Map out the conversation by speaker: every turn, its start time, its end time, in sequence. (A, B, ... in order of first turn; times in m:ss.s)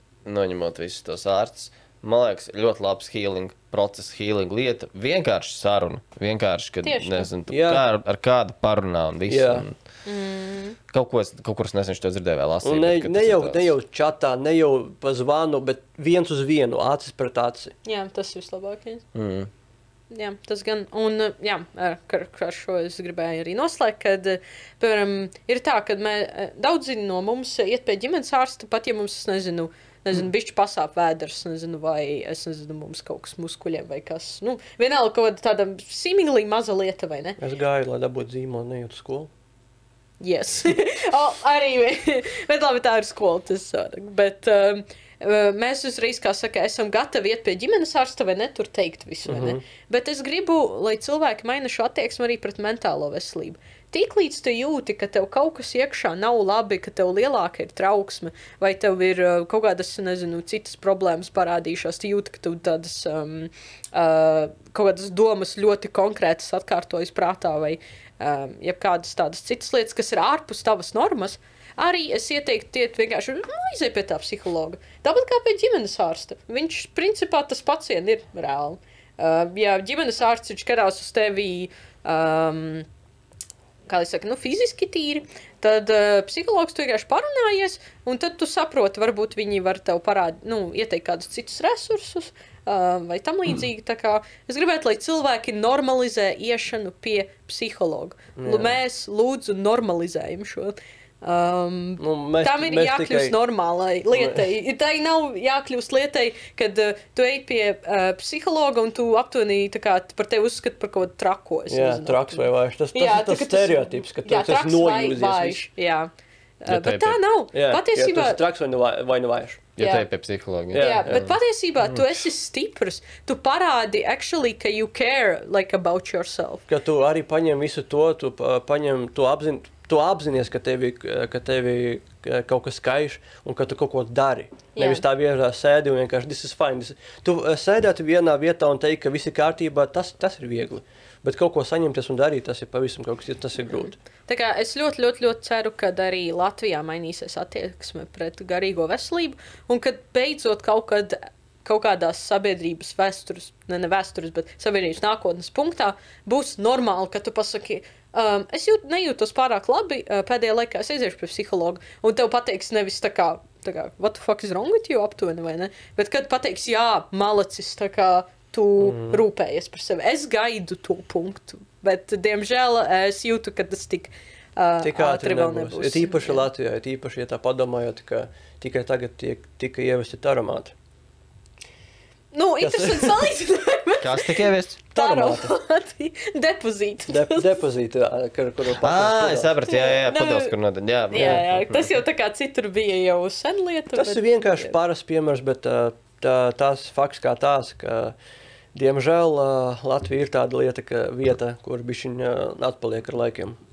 0:00.2-0:09.7 A
0:06.8-0:07.3 B
0:07.5-0:07.8 C
0:09.3-0:09.6 C
0:10.0-0:10.8 B
0:10.9-0:13.7 A
0:12.6-0:17.7 C
0:17.8-0:19.0 B
0:19.1-0:19.5 A
0:20.1-0:37.4 B
0:37.4-0:39.3 C
0:40.2-1:22.8 B
0:49.2-0:49.6 C
1:23.9-1:56.1 B
1:38.4-1:38.8 C
1:42.0-1:43.4 C
1:44.1-1:44.4 C
1:51.7-1:55.7 C
1:56.6-1:58.4 B
1:56.7-1:57.2 A
1:57.5-1:59.7 C
1:59.8-2:01.4 A
1:59.8-2:00.0 B
2:00.7-2:01.2 C
2:00.7-2:06.6 B
2:06.7-2:23.9 C
2:14.7-2:15.0 B
2:23.8-2:56.5 B
2:48.8-2:49.2 C
2:54.8-3:00.7 C
3:02.3-3:07.5 B
3:02.6-3:03.3 C
3:04.0-3:04.8 A
3:04.9-3:05.5 C
3:07.1-3:09.5 C
3:08.8-3:11.7 A
3:09.7-3:10.5 B
3:11.1-3:14.7 B
3:11.1-3:11.4 C
3:13.9-3:18.1 C
3:18.7-3:23.6 C